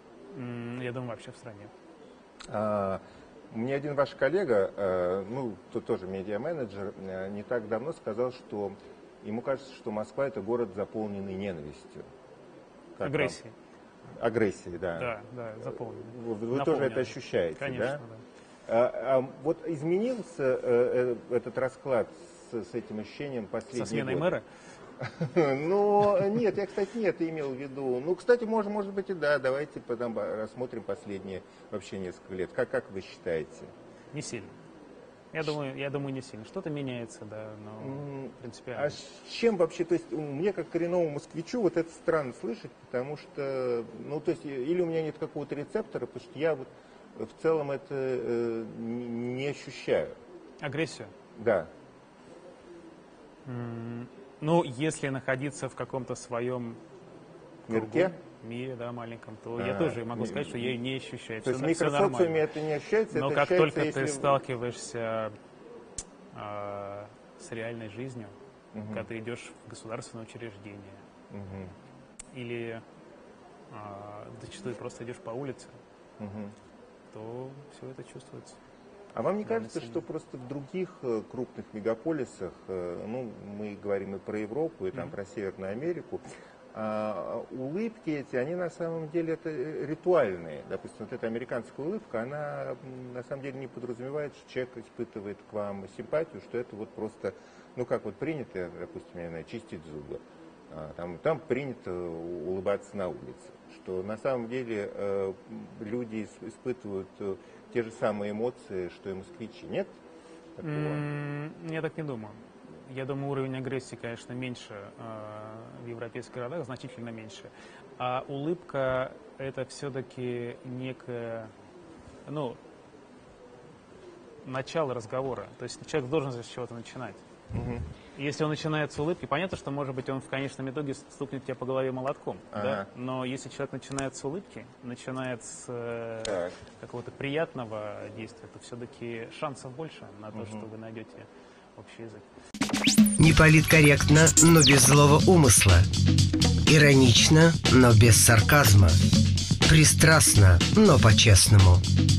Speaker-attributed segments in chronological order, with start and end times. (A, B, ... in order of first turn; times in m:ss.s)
0:00.3-0:01.7 A
0:02.5-0:03.0 B
0:03.5-0:12.0 B
0:13.0-0:13.4 B
0:13.0-0:13.5 A
0:14.1-0:15.1 B
0:15.0-0:18.2 A
0:15.7-0:18.0 B
0:18.7-0:24.4 B
0:23.7-0:24.5 A
0:25.0-0:33.7 B
0:34.1-0:34.6 A
0:35.3-0:39.0 A
0:37.8-0:50.2 B
0:50.6-0:51.1 A
0:51.4-0:51.7 B
0:53.4-0:56.8 A
0:57.7-1:02.4 A
0:57.7-0:58.1 B
0:59.6-1:00.8 B
1:01.4-1:04.4 B
1:03.1-1:05.3 A
1:06.3-1:08.4 A
1:08.7-1:09.1 B
1:08.9-1:11.0 A
1:11.3-1:11.7 B
1:12.3-1:12.8 A
1:13.7-1:15.8 A
1:16.2-1:16.6 B
1:17.1-1:18.6 A
1:19.1-1:49.9 B
1:19.4-1:20.0 A
1:50.6-1:51.0 B
1:50.6-2:01.5 A
2:02.3-2:02.6 A
2:04.4-2:07.2 A
2:07.5-2:07.9 B
2:08.1-2:22.3 A
2:12.5-2:12.9 B
2:16.2-2:16.6 B
2:20.3-2:20.7 B
2:23.2-2:25.9 C
2:26.7-2:29.0 C
2:29.7-2:31.8 C